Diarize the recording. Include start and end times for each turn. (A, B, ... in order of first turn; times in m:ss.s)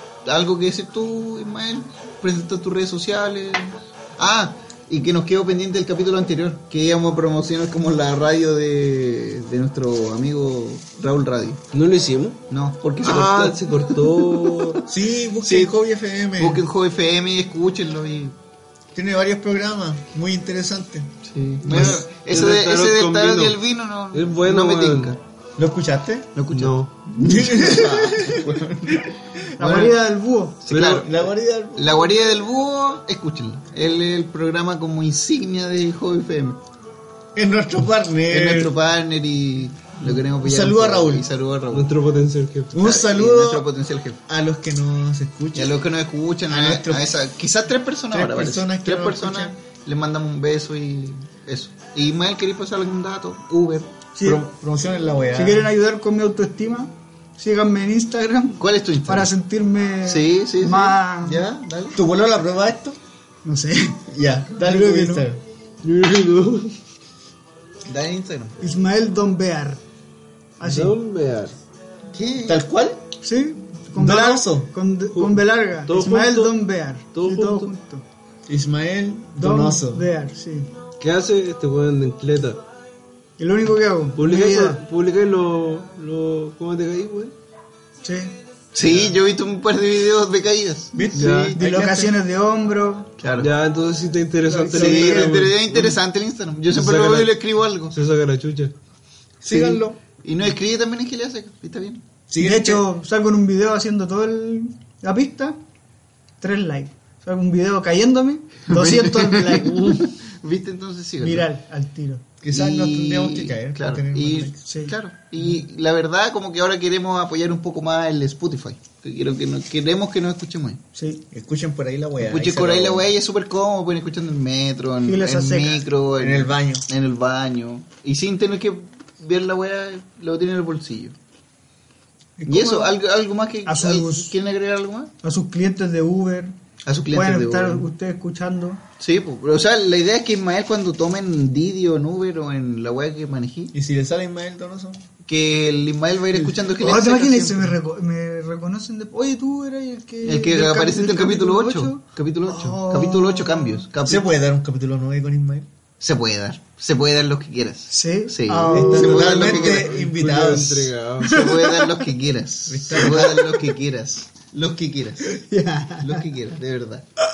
0:00.3-0:11.6 A
0:11.7-0:12.4 B
0:12.5-0:14.7 A
0:13.0-0:14.8 B
0:14.9-0:16.6 C
0:15.4-0:15.7 A
0:16.4-0:18.4 A
0:19.0-0:21.1 C
0:21.2-0:25.2 A
0:21.7-0:22.0 C
0:21.7-0:23.6 B
0:24.1-0:25.1 B
0:25.6-0:26.3 C
0:26.4-0:29.9 A
0:26.5-0:26.9 B
0:27.2-0:29.0 C
0:29.6-0:29.9 C
0:29.6-0:30.6 D
0:30.6-0:31.2 A
0:30.7-0:31.2 B
0:31.0-0:32.2 C
0:31.8-0:36.6 A
0:37.4-0:38.7 C
0:38.3-0:41.9 A
0:40.1-0:41.3 C
0:41.7-0:42.8 B
0:42.7-0:43.7 C
0:42.8-0:44.2 A
0:44.3-0:45.8 C
0:45.6-0:53.9 A
0:46.5-0:47.1 C
0:48.1-0:49.5 C
0:54.2-0:54.4 D
0:54.2-0:55.7 C
0:55.4-1:01.5 D
0:58.6-0:59.3 A
1:00.0-1:02.0 A
1:02.0-1:03.0 C
1:03.4-1:04.0 D
1:04.1-1:05.4 C
1:04.6-1:05.3 D
1:05.8-1:06.8 B
1:07.9-1:08.6 A
1:08.6-1:09.8 D
1:10.6-1:11.0 D
1:10.6-1:11.6 B
1:12.1-1:12.6 A
1:12.4-1:13.0 C
1:13.2-1:18.0 D
1:14.0-1:14.7 C
1:15.1-1:17.7 B
1:18.5-1:20.1 C
1:19.4-1:20.7 D
1:21.0-1:22.6 B
1:23.4-1:24.8 D
1:24.2-1:27.3 B
1:28.0-1:28.4 D
1:28.8-1:31.5 A
1:30.9-1:32.2 C
1:31.1-1:31.6 B
1:31.6-1:33.1 D
1:33.2-1:33.5 A
1:33.4-1:36.0 B
1:34.5-1:35.5 C
1:34.6-1:38.0 A
1:36.7-1:37.4 B
1:37.9-1:38.7 B
1:39.4-1:40.0 C
1:39.4-1:42.0 A
1:42.3-1:42.8 C
1:42.4-1:45.6 D
1:46.4-1:50.0 D
1:48.7-1:51.5 A
1:51.2-1:52.2 D
1:52.4-1:54.6 C
1:52.5-2:00.8 A
1:54.7-1:55.0 D
2:01.0-2:01.2 D
2:01.3-2:03.1 C
2:02.2-2:11.2 A
2:05.0-2:05.8 D
2:06.2-2:06.8 C
2:12.4-2:12.9 D
2:12.5-2:15.1 A
2:13.7-2:14.3 D
2:15.2-2:16.6 D
2:16.8-2:17.9 A
2:17.1-2:18.8 D
2:19.0-2:23.7 A
2:23.7-2:25.1 C
2:25.3-2:27.8 A
2:26.6-2:33.9 D
2:30.2-2:34.3 A
2:34.0-2:35.7 C
2:36.0-2:40.0 A
2:37.9-2:39.7 D
2:38.7-2:40.9 C
2:39.0-2:41.4 B
2:41.2-2:41.8 D
2:41.2-2:45.4 A
2:42.7-2:43.6 C
2:45.3-2:46.2 D
2:46.0-2:47.0 A